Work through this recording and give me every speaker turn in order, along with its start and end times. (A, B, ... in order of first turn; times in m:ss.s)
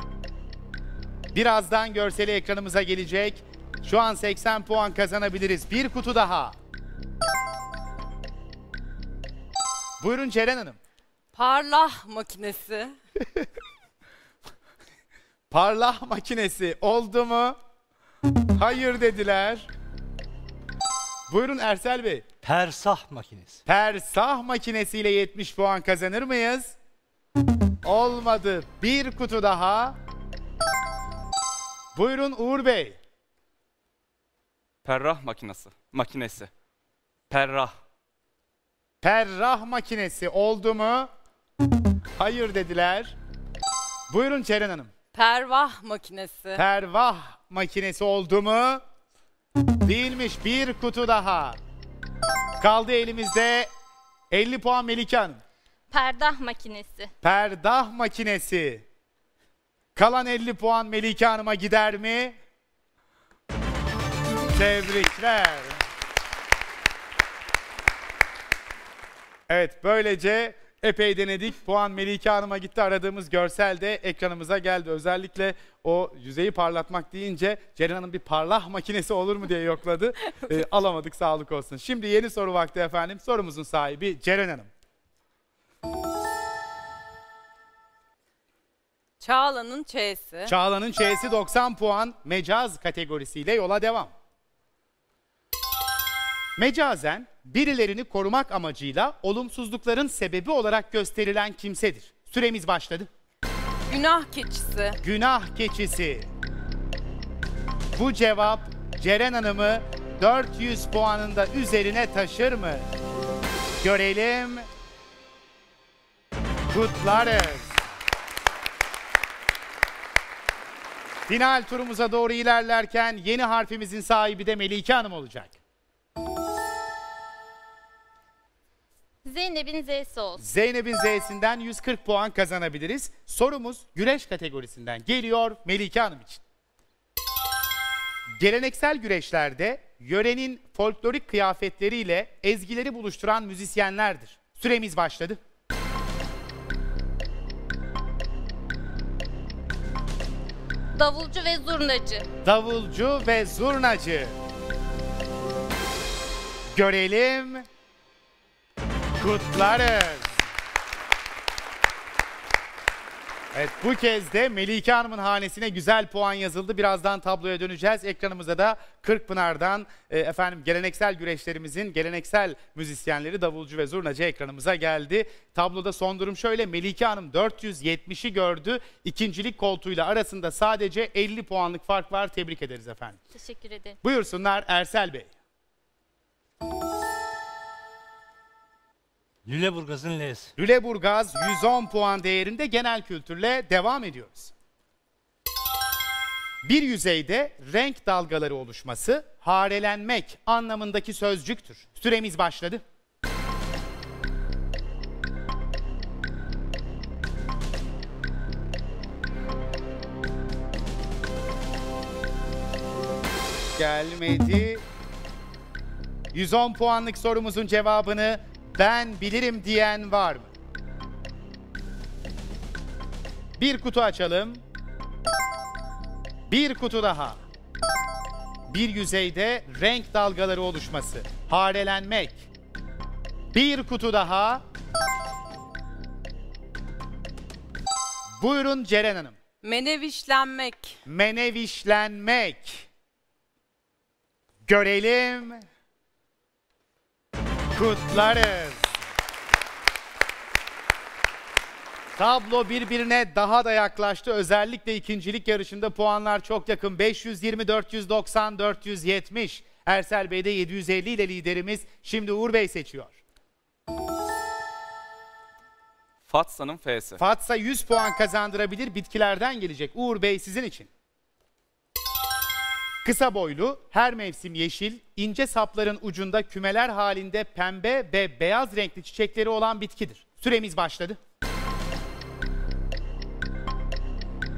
0:01.3-0:06.6 A
0:10.0-0:10.8 A
0:11.3-0:12.9 B
0:15.5-0:17.6 A
0:18.6-0:19.7 A
0:21.3-0:22.2 A
0:22.4-0:23.6 C
0:23.7-0:26.8 A
0:27.8-0:30.0 A
0:32.0-0:33.0 A
0:34.8-0:36.5 D
0:37.3-0:37.7 D
0:39.0-0:41.1 A
0:42.2-0:43.2 A
0:44.1-0:44.9 A
0:45.1-0:46.6 B
0:46.6-0:48.8 A
0:49.8-0:51.6 A
0:52.6-0:53.7 A
0:54.3-0:55.4 A
0:55.9-0:57.1 E
0:57.2-0:58.8 A
1:00.0-1:02.3 A
1:04.5-1:05.8 A
1:09.5-1:24.7 A
1:29.2-1:30.5 B
1:30.5-1:34.1 A
1:36.6-1:43.1 A
1:43.9-1:45.0 B
1:45.0-1:46.3 A
1:48.0-1:52.9 A
1:53.8-1:54.7 A
1:56.7-1:57.8 A
2:01.3-2:05.5 A
2:09.2-2:10.4 E
2:10.4-2:16.4 A
2:18.3-2:25.4 A
2:30.9-2:32.3 E
2:32.4-2:34.4 A
2:36.7-2:37.6 A
2:39.2-2:40.4 A
2:43.5-3:03.2 A
3:03.3-3:04.0 E
3:04.0-3:05.3 A
3:09.4-3:10.5 C
3:10.6-3:14.5 A
3:16.6-3:22.8 A
3:33.8-3:34.8 A
3:36.3-3:40.5 A
3:43.6-3:44.6 A
3:46.5-3:47.4 A
3:48.7-3:52.4 A
3:53.5-3:54.6 A
3:58.4-3:59.4 A
3:59.6-4:01.0 B
4:01.0-4:02.9 A
4:04.6-4:05.6 A
4:07.7-4:08.9 A
4:12.2-4:23.2 A
4:26.2-4:27.2 D
4:27.2-4:30.9 A
4:33.0-4:41.2 A